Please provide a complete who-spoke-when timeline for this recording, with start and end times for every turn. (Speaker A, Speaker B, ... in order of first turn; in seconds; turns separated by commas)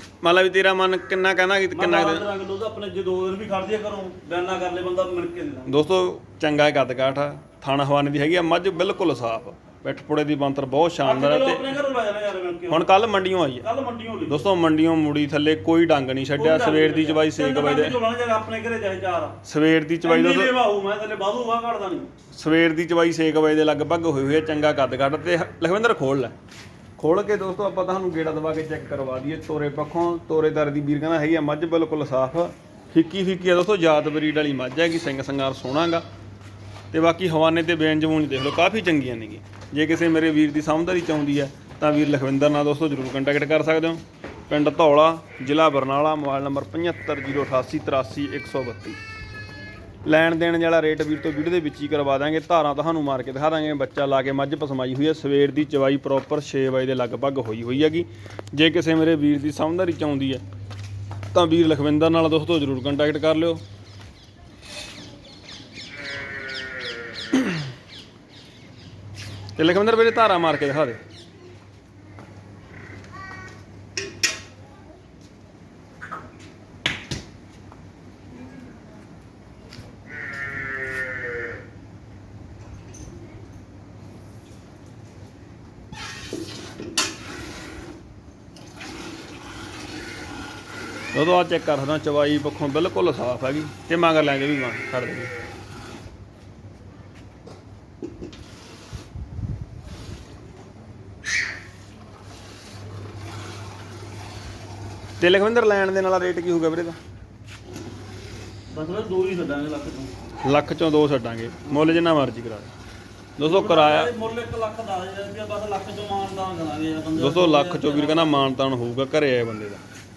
Speaker A: 0.2-2.3, Speaker B: 1.7-5.8, Speaker A: 5.7-11.7, Speaker B: 11.0-12.8, Speaker A: 12.7-13.7, Speaker B: 13.6-14.4, Speaker A: 14.3-18.0, Speaker B: 16.4-19.4, Speaker A: 19.4-20.5, Speaker B: 20.0-22.1, Speaker A: 22.3-26.3, Speaker A: 27.0-36.0, Speaker A: 36.9-49.0, Speaker A: 50.0-60.4, Speaker A: 61.3-63.6, Speaker A: 69.5-71.0, Speaker A: 91.1-95.3, Speaker A: 105.2-107.0, Speaker B: 108.7-110.1, Speaker A: 110.4-112.7, Speaker A: 113.4-114.1, Speaker B: 113.4-118.4, Speaker A: 117.2-119.8